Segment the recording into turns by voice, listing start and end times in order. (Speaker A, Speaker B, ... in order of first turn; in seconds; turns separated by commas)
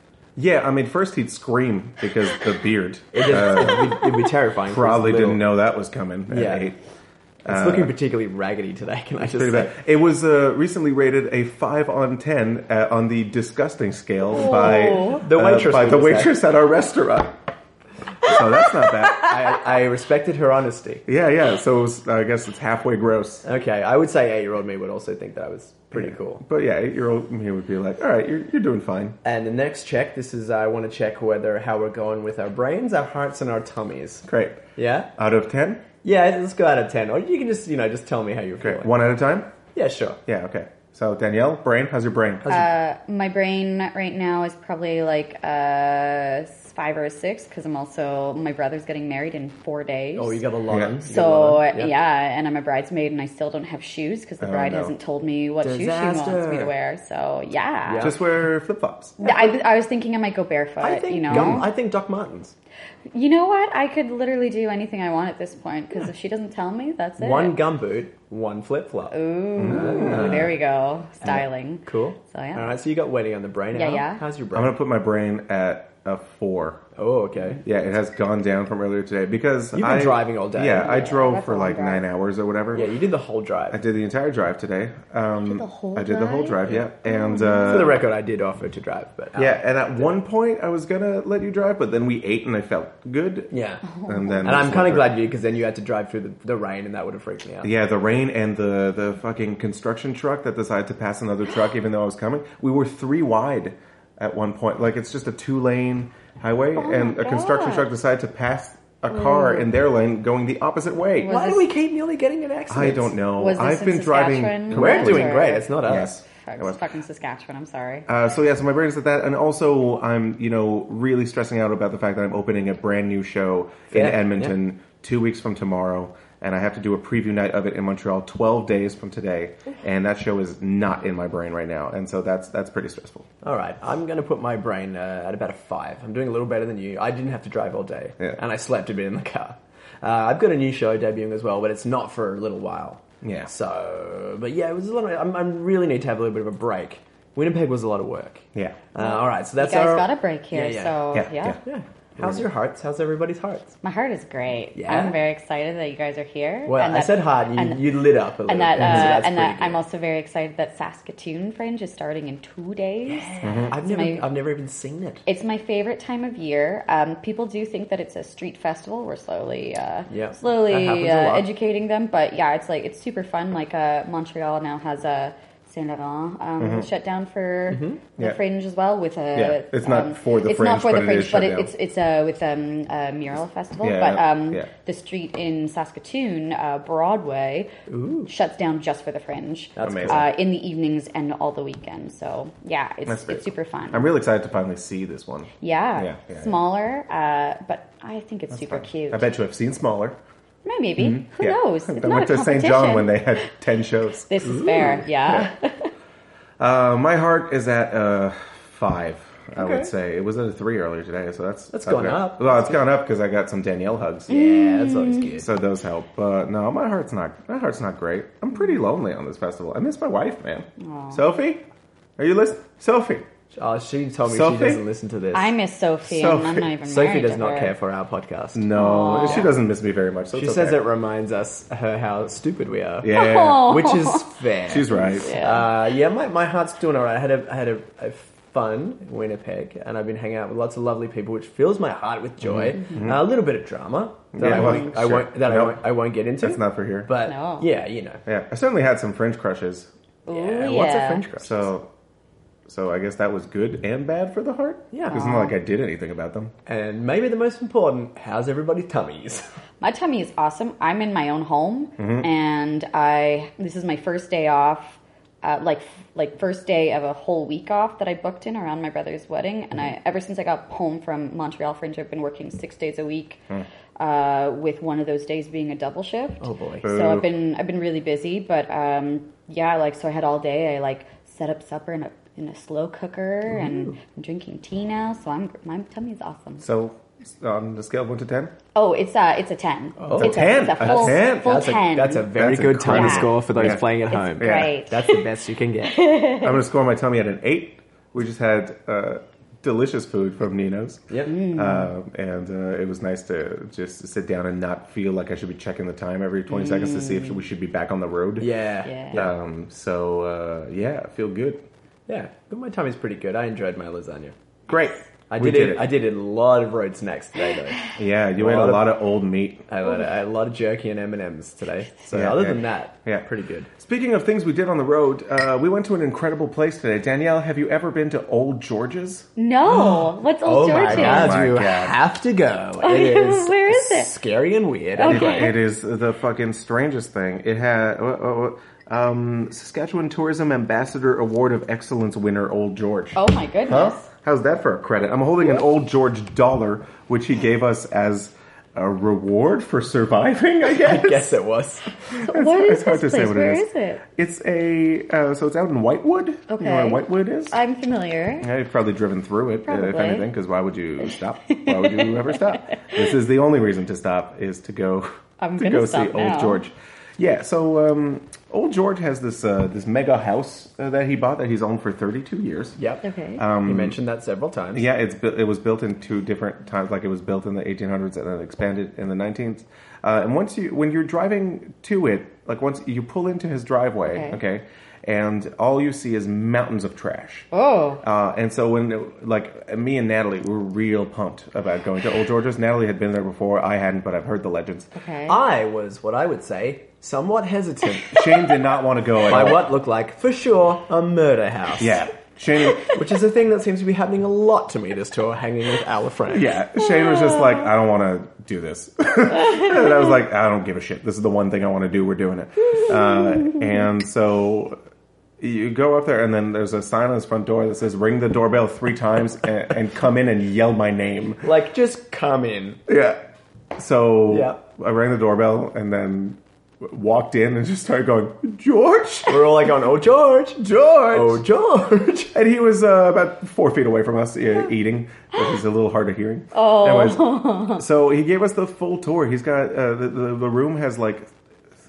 Speaker A: 0.4-4.1, Speaker B: 3.1-5.5, Speaker A: 4.7-6.8, Speaker B: 6.3-6.7, Speaker A: 7.4-7.9, Speaker B: 7.5-9.7, Speaker A: 9.3-17.4, Speaker C: 14.3-15.2, Speaker B: 14.5-16.4, Speaker A: 18.2-19.3, Speaker B: 19.2-21.1, Speaker A: 21.1-23.4, Speaker B: 23.4-26.4, Speaker A: 25.9-29.2, Speaker B: 29.2-35.1, Speaker A: 34.3-34.6, Speaker A: 35.2-35.9, Speaker B: 36.0-38.9, Speaker A: 38.6-39.5, Speaker B: 39.7-40.2, Speaker A: 40.3-42.5, Speaker B: 42.4-42.7, Speaker C: 42.5-50.4, Speaker B: 50.2-51.9, Speaker A: 50.7-51.0, Speaker C: 51.0-58.1, Speaker A: 54.4-54.9, Speaker B: 55.6-56.7, Speaker B: 57.9-58.2, Speaker A: 58.0-59.2, Speaker C: 59.2-61.7, Speaker B: 59.2-59.5, Speaker B: 60.8-62.5, Speaker A: 61.3-61.6, Speaker C: 63.1-67.6, Speaker B: 67.2-70.6, Speaker C: 69.1-72.7, Speaker A: 69.6-70.5, Speaker B: 71.2-74.8, Speaker C: 73.8-74.2, Speaker A: 74.5-76.8, Speaker B: 77.0-77.6, Speaker A: 77.6-82.9, Speaker B: 79.7-80.9, Speaker C: 80.8-82.0, Speaker B: 82.7-83.8, Speaker A: 83.7-88.0, Speaker C: 85.5-87.9, Speaker B: 86.7-86.9, Speaker B: 87.5-89.7, Speaker A: 89.4-93.5, Speaker B: 93.5-93.8, Speaker C: 93.9-94.7, Speaker A: 94.0-95.1, Speaker B: 94.4-97.7, Speaker A: 97.6-111.3, Speaker C: 106.8-107.9, Speaker C: 109.1-109.7, Speaker C: 111.2-111.7, Speaker B: 111.2-113.2, Speaker A: 112.7-116.8, Speaker C: 113.4-115.8, Speaker B: 114.7-116.2, Speaker C: 116.3-118.1, Speaker A: 118.1-133.3, Speaker B: 123.9-124.6, Speaker B: 133.4-151.0, Speaker A: 143.2-143.5, Speaker A: 148.6-148.8, Speaker C: 149.0-151.6, Speaker A: 151.1-151.6, Speaker B: 151.6-153.8, Speaker A: 152.2-152.4, Speaker C: 153.8-157.9, Speaker B: 154.8-155.2, Speaker B: 156.7-159.8, Speaker C: 158.5-164.2, Speaker A: 158.8-159.1, Speaker B: 163.1-165.2, Speaker A: 163.4-163.7, Speaker C: 165.3-187.7, Speaker B: 170.1-171.5, Speaker A: 176.6-176.9, Speaker B: 177.7-178.0, Speaker A: 179.3-181.7, Speaker A: 183.8-184.7, Speaker B: 187.9-188.3, Speaker C: 188.3-194.1, Speaker B: 189.8-190.3, Speaker A: 189.8-190.2, Speaker A: 193.1-196.5, Speaker C: 195.6-199.3, Speaker A: 198.5-200.2, Speaker C: 200.7-203.5, Speaker A: 201.0-204.3, Speaker C: 204.3-205.9, Speaker B: 204.4-205.1, Speaker A: 206.6-214.3, Speaker B: 209.6-209.9, Speaker B: 211.7-212.8, Speaker C: 214.3-215.3, Speaker B: 214.3-215.5, Speaker A: 215.4-221.6, Speaker C: 220.8-221.2, Speaker A: 222.2-223.3, Speaker B: 223.5-225.6, Speaker A: 224.2-224.8, Speaker C: 225.3-227.7, Speaker A: 226.1-226.7, Speaker B: 226.8-229.6, Speaker A: 228.6-230.8, Speaker C: 228.8-229.5, Speaker B: 230.3-248.2, Speaker A: 233.0-233.8, Speaker C: 233.1-234.4, Speaker A: 234.7-235.4, Speaker C: 235.2-235.8, Speaker A: 242.4-243.3, Speaker C: 242.8-243.0, Speaker A: 244.3-245.8, Speaker C: 244.4-244.9, Speaker A: 246.4-247.1, Speaker C: 247.2-247.7, Speaker A: 248.3-249.9, Speaker C: 250.3-251.2, Speaker B: 250.3-251.7, Speaker A: 251.4-251.9, Speaker A: 252.7-256.5, Speaker B: 254.9-255.3, Speaker C: 255.1-255.5, Speaker B: 256.7-259.4, Speaker C: 259.8-273.4, Speaker A: 262.0-262.3, Speaker C: 274.0-286.6, Speaker B: 276.4-276.9, Speaker A: 276.8-277.3, Speaker B: 283.5-284.0, Speaker A: 286.6-288.5, Speaker C: 288.8-292.3, Speaker B: 290.0-296.1, Speaker A: 290.1-291.7, Speaker A: 292.3-293.8, Speaker C: 292.8-295.2, Speaker A: 294.4-294.7, Speaker C: 295.9-296.6, Speaker A: 296.4-308.5, Speaker C: 301.3-301.9, Speaker C: 306.5-307.4, Speaker B: 308.4-309.3, Speaker C: 308.9-309.2, Speaker A: 309.1-311.7, Speaker B: 312.1-314.4, Speaker A: 314.7-315.9, Speaker B: 315.3-319.0, Speaker A: 318.0-319.6, Speaker B: 319.7-323.7, Speaker A: 322.1-329.3, Speaker C: 329.4-331.4, Speaker B: 329.7-335.5, Speaker A: 330.7-332.0, Speaker C: 332.8-334.1, Speaker C: 335.0-335.5, Speaker A: 335.1-351.3, Speaker C: 343.1-344.1, Speaker B: 350.7-352.1, Speaker C: 352.1-354.0, Speaker A: 352.2-357.6, Speaker C: 356.5-358.5, Speaker A: 358.4-372.8, Speaker C: 359.7-360.3, Speaker C: 361.5-363.0, Speaker C: 365.4-366.6, Speaker B: 372.8-373.0, Speaker C: 373.0-373.4, Speaker A: 373.4-374.0, Speaker B: 373.6-374.9, Speaker A: 374.7-387.5, Speaker C: 384.1-384.4, Speaker C: 387.5-388.0, Speaker A: 388.0-394.9, Speaker C: 394.9-395.4, Speaker B: 395.3-398.5, Speaker A: 398.1-399.7, Speaker B: 399.2-402.1, Speaker A: 401.8-402.9, Speaker B: 402.8-406.6, Speaker A: 406.3-414.8, Speaker A: 415.4-421.4, Speaker B: 421.4-422.8, Speaker A: 422.9-423.2, Speaker A: 423.8-429.5, Speaker B: 424.3-424.6, Speaker B: 429.3-432.3, Speaker A: 430.7-431.4, Speaker A: 432.3-441.3, Speaker C: 436.5-437.8